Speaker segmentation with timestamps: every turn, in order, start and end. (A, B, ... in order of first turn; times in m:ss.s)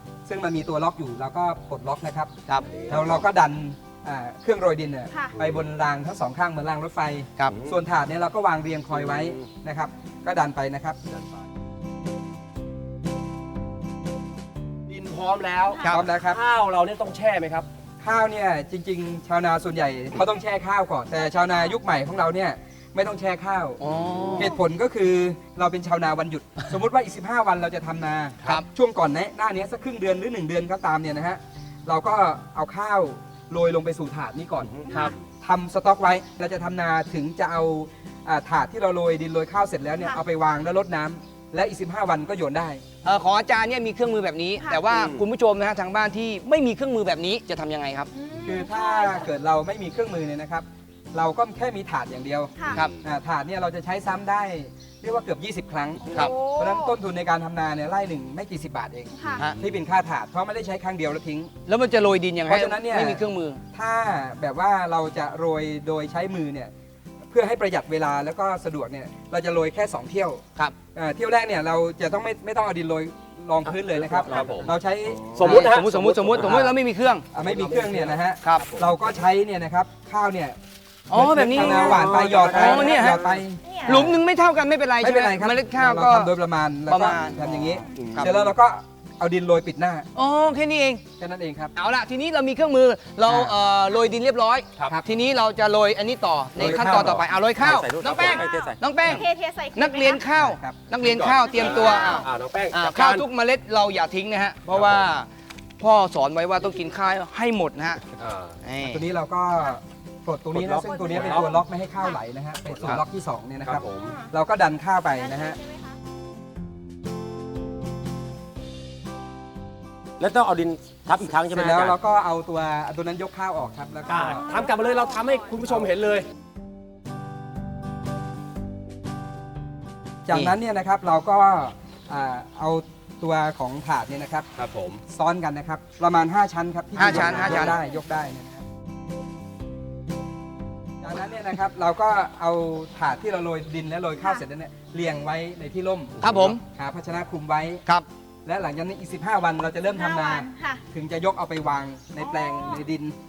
0:00.2-0:02.3 A
0:02.6-0:03.2 B
0:02.9-0:11.0 A
0:14.9-0:17.7 B
0:15.7-0:15.9 C
0:15.8-0:16.4 A
0:18.0-0:23.8 A
0:23.8-0:24.6 D
0:24.4-0:42.8 A
0:34.9-0:35.1 C
0:43.0-0:48.1 D
0:44.6-0:44.9 C
0:48.1-0:49.3 C
0:48.4-1:01.5 A
0:52.6-0:52.8 C
0:52.7-0:53.0 B
0:56.0-0:56.9 C
0:59.2-0:59.5 C
0:59.2-0:59.6 B
1:01.7-1:03.6 D
1:02.5-1:06.7 A
1:07.3-1:10.4 A
1:10.9-1:15.8 A
1:13.9-1:16.8 B
1:14.2-1:14.7 E
1:15.4-1:17.2 D
1:16.4-1:16.7 E
1:17.3-1:20.6 A
1:17.3-1:18.9 B
1:21.1-1:23.2 D
1:21.1-1:24.2 A
1:21.6-1:23.2 E
1:22.0-1:23.2 B
1:23.6-1:24.1 C
1:23.8-1:26.3 D
1:25.0-1:30.1 A
1:26.9-1:27.4 D
1:27.4-1:28.4 B
1:30.2-1:31.0 D
1:31.2-1:31.7 A
1:31.8-1:45.3 D
1:33.2-1:33.6 A
1:36.6-1:37.2 A
1:36.6-1:38.8 E
1:36.6-1:37.2 B
1:38.0-1:40.2 C
1:40.3-1:40.8 A
1:41.0-1:43.3 B
1:41.5-1:42.3 C
1:44.7-1:45.1 B
1:45.8-1:48.0 D
1:48.2-1:48.6 B
1:48.6-1:49.0 D
1:48.8-1:55.6 A
1:50.6-1:51.3 E
1:50.7-1:51.6 B
1:50.9-1:52.2 C
1:52.6-1:53.0 B
1:53.6-1:54.2 B
1:53.8-1:54.3 C
1:55.2-1:56.0 C
2:00.2-2:02.0 E
2:01.2-2:04.5 A
2:04.0-2:05.6 C
2:04.1-2:06.2 B
2:10.2-2:14.5 A
2:14.6-2:15.0 B
2:15.0-2:18.6 A
2:17.0-2:17.8 D
2:17.1-2:17.7 B
2:21.0-2:27.8 A
2:26.2-2:26.6 D
2:26.2-2:26.6 B
2:28.4-2:33.2 A
2:29.9-2:30.8 C
2:32.2-2:32.8 C